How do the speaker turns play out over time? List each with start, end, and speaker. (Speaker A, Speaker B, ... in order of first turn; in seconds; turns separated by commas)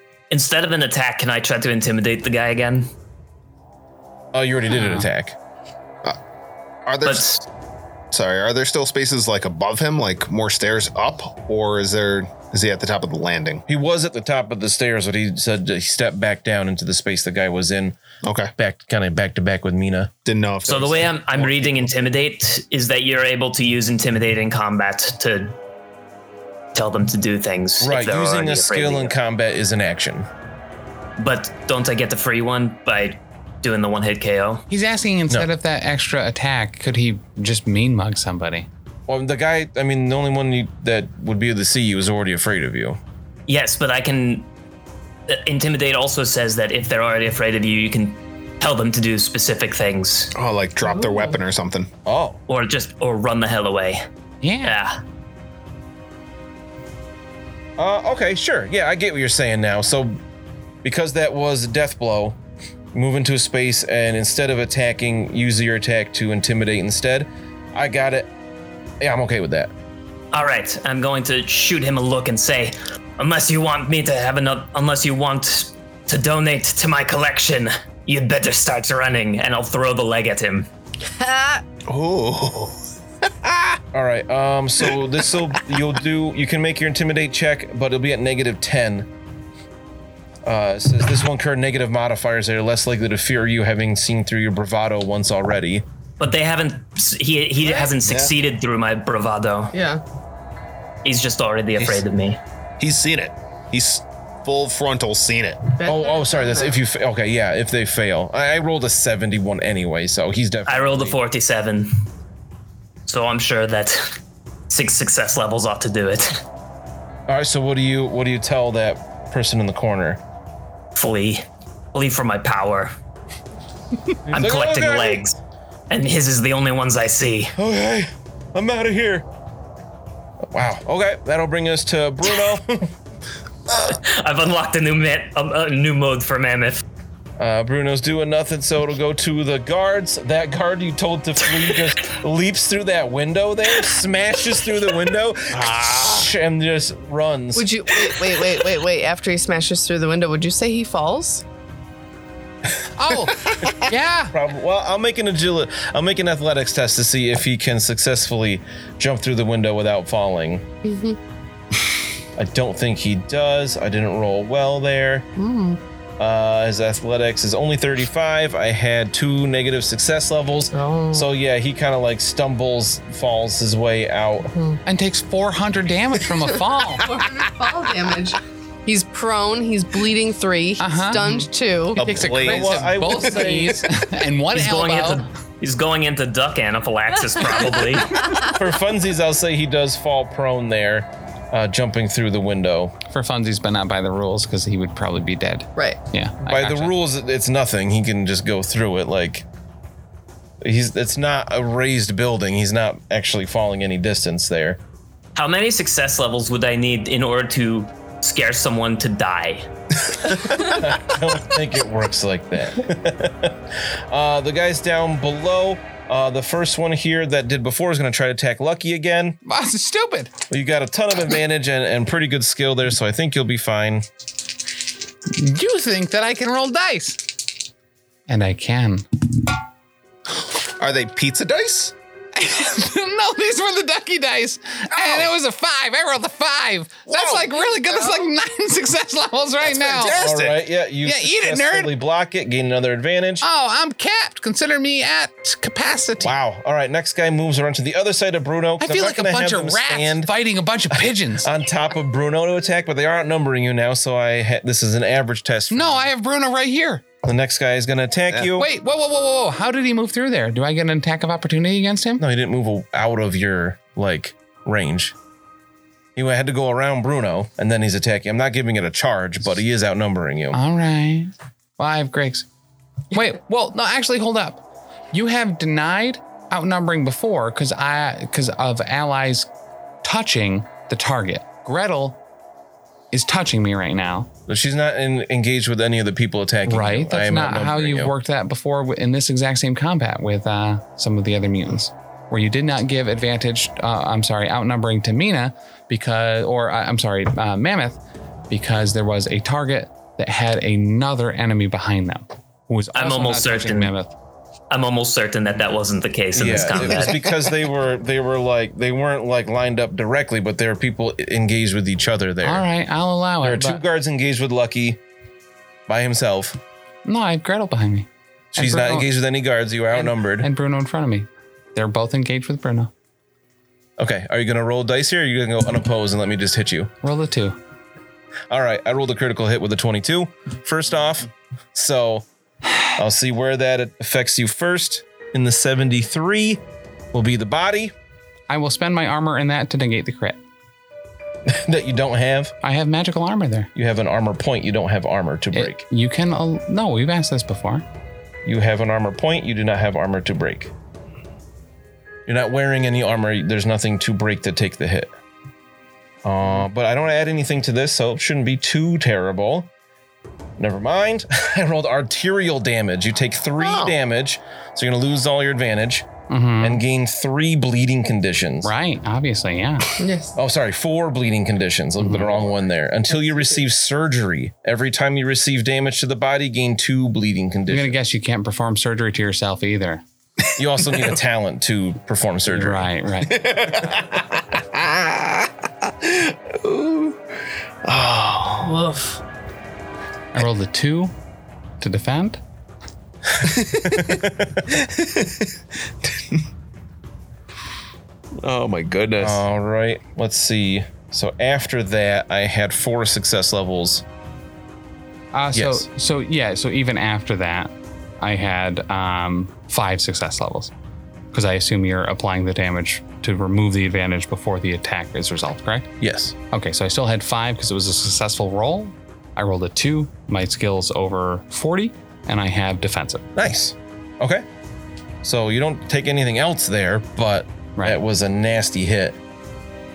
Speaker A: 0.3-2.9, Speaker B: 4.3-5.4, Speaker C: 4.7-5.1, Speaker D: 6.9-7.3, Speaker A: 7.0-7.4, Speaker D: 8.1-13.6, Speaker B: 13.7-18.0, Speaker D: 18.2-18.5, Speaker B: 18.6-20.1, Speaker D: 20.2-21.2, Speaker A: 20.7-25.6, Speaker A: 26.7-29.2, Speaker B: 27.8-30.3, Speaker A: 31.2-34.7, Speaker C: 34.7-38.7, Speaker B: 39.1-43.0, Speaker A: 43.5-44.5, Speaker A: 45.3-50.3, Speaker D: 50.4-51.9, Speaker E: 50.8-51.4, Speaker B: 52.0-52.4, Speaker A: 52.5-54.0, Speaker C: 54.4-54.8, Speaker A: 54.6-55.0, Speaker B: 57.8-60.2, Speaker B: 60.8-62.4, Speaker B: 62.9-68.3, Speaker B: 69.0-69.7, Speaker A: 70.3-80.7, Speaker E: 81.2-81.6, Speaker D: 81.9-83.8, Speaker B: 83.9-89.1, Speaker B: 90.5-95.8, Speaker A: 96.2-99.7, Speaker E: 97.6-97.9, Speaker D: 98.0-98.3, Speaker E: 99.7-100.0, Speaker A: 101.0-102.4, Speaker D: 102.8-105.6, Speaker E: 105.8-106.8, Speaker B: 105.9-111.2, Speaker A: 110.7-112.0, Speaker A: 113.1-114.2, Speaker A: 114.7-116.4, Speaker B: 117.3-120.2, Speaker A: 121.0-123.0, Speaker B: 124.3-125.2, Speaker A: 124.3-125.4, Speaker A: 125.9-127.5, Speaker B: 127.6-129.3, Speaker B: 130.5-132.9, Speaker A: 133.7-136.8, Speaker B: 137.4-147.7, Speaker D: 145.5-146.3, Speaker E: 147.6-151.4, Speaker C: 153.0-154.4, Speaker B: 153.6-160.6, Speaker E: 160.8-161.2, Speaker B: 162.4-165.3, Speaker E: 165.4-165.8, Speaker B: 166.2-174.5, Speaker E: 170.7-171.3, Speaker E: 174.5-174.8, Speaker C: 174.8-177.1, Speaker E: 176.9-182.4, Speaker C: 180.8-185.2, Speaker D: 182.0-183.4, Speaker B: 182.4-183.9, Speaker A: 184.5-188.2, Speaker B: 188.5-192.9, Speaker C: 193.1-196.9, Speaker B: 196.4-199.5, Speaker B: 200.6-204.8, Speaker A: 205.3-209.7, Speaker A: 210.3-210.6, Speaker B: 210.3-219.4, Speaker C: 219.4-220.3, Speaker B: 220.5-224.1, Speaker C: 225.3-227.4, Speaker C: 228.3-229.1, Speaker D: 230.8-231.9, Speaker C: 232.4-240.2, Speaker B: 237.1-237.5, Speaker D: 239.6-240.7, Speaker B: 240.0-243.4, Speaker C: 241.0-241.9, Speaker C: 243.4-246.3, Speaker B: 246.2-250.3, Speaker C: 248.8-251.5, Speaker B: 250.9-256.1, Speaker C: 255.7-257.0, Speaker B: 257.2-258.7, Speaker C: 258.6-262.2, Speaker B: 262.2-265.1, Speaker B: 266.2-270.6, Speaker C: 270.5-272.5, Speaker C: 273.1-279.5, Speaker C: 280.0-282.2, Speaker C: 283.1-284.3, Speaker B: 284.5-288.1, Speaker C: 286.7-304.1, Speaker A: 302.9-303.9, Speaker A: 304.7-307.2, Speaker B: 306.3-312.7, Speaker C: 312.4-313.8, Speaker B: 313.4-315.0, Speaker B: 315.9-316.6, Speaker C: 317.1-319.1, Speaker B: 318.5-320.5, Speaker C: 319.9-322.9, Speaker B: 324.0-326.9, Speaker C: 327.0-327.6, Speaker B: 328.5-332.3, Speaker B: 333.0-337.9, Speaker C: 338.5-340.4, Speaker B: 341.5-342.5, Speaker C: 342.6-343.7, Speaker B: 343.8-345.8, Speaker C: 345.5-347.9, Speaker B: 348.4-350.7, Speaker B: 352.3-355.1, Speaker B: 356.2-359.7, Speaker B: 360.6-366.1, Speaker D: 363.6-363.9, Speaker C: 366.3-366.8, Speaker B: 366.6-368.7, Speaker C: 368.6-370.0, Speaker E: 370.0-370.4, Speaker B: 370.4-378.0, Speaker C: 372.0-372.3, Speaker C: 377.7-380.0, Speaker B: 380.6-382.9, Speaker C: 382.5-383.5, Speaker D: 383.2-387.2, Speaker D: 387.8-388.8, Speaker E: 388.8-389.2, Speaker C: 390.3-391.1, Speaker C: 391.8-392.4, Speaker B: 393.3-394.7, Speaker D: 393.4-396.4, Speaker D: 398.4-399.4, Speaker B: 399.2-404.0, Speaker C: 405.3-410.7, Speaker B: 405.5-405.9, Speaker C: 411.3-415.9, Speaker B: 416.0-416.4, Speaker C: 416.5-423.3, Speaker B: 423.4-424.4, Speaker B: 425.2-429.2, Speaker C: 427.8-428.0